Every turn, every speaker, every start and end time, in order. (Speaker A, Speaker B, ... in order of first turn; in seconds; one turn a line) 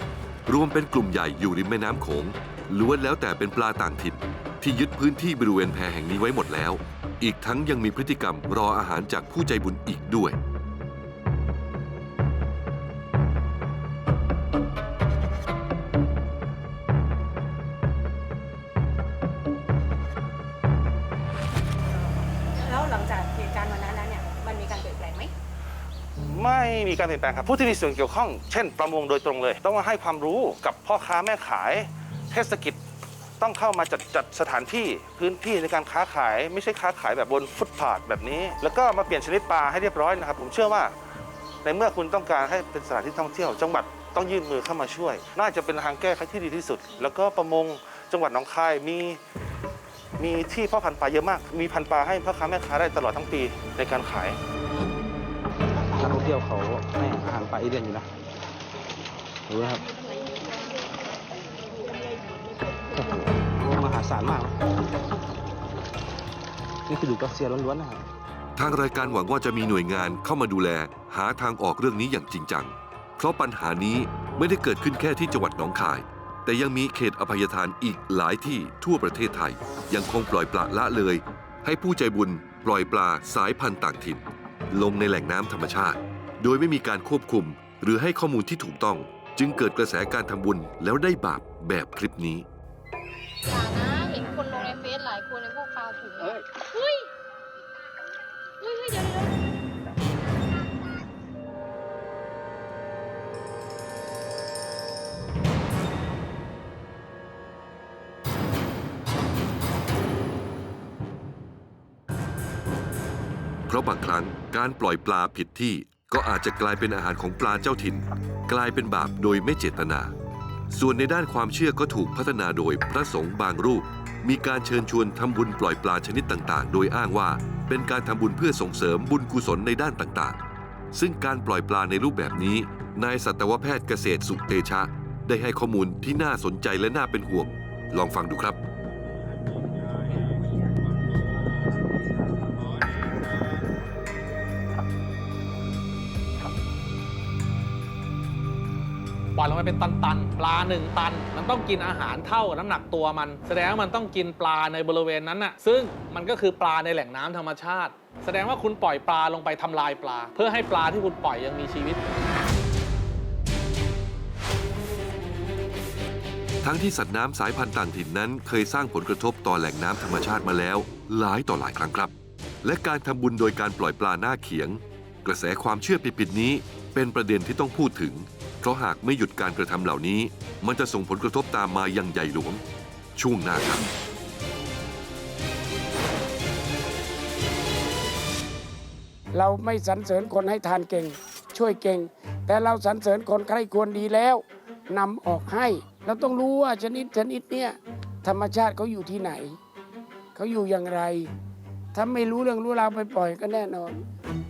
Speaker A: 0.5-10.4
Speaker B: 26.2-32.8
Speaker B: 33.4-40.9
Speaker B: 41.6-49.2
Speaker B: 50.2-54.4
Speaker C: 55.8-58.1
Speaker C: 59.5-59.8
Speaker C: 63.0-64.5
Speaker C: 66.9-68.0
Speaker A: 68.6-92.5
Speaker D: 93.4-97.0
Speaker D: 98.6-99.3
Speaker A: 113.7-120.1
Speaker A: 120.7-130.4
Speaker A: 130.9-138.6
Speaker E: 149.3-162.0
Speaker A: 166.6-182.6
Speaker A: 183.2-183.8
Speaker F: 189.3-199.6
Speaker F: 200.3-201.3
Speaker F: 201.9-204.0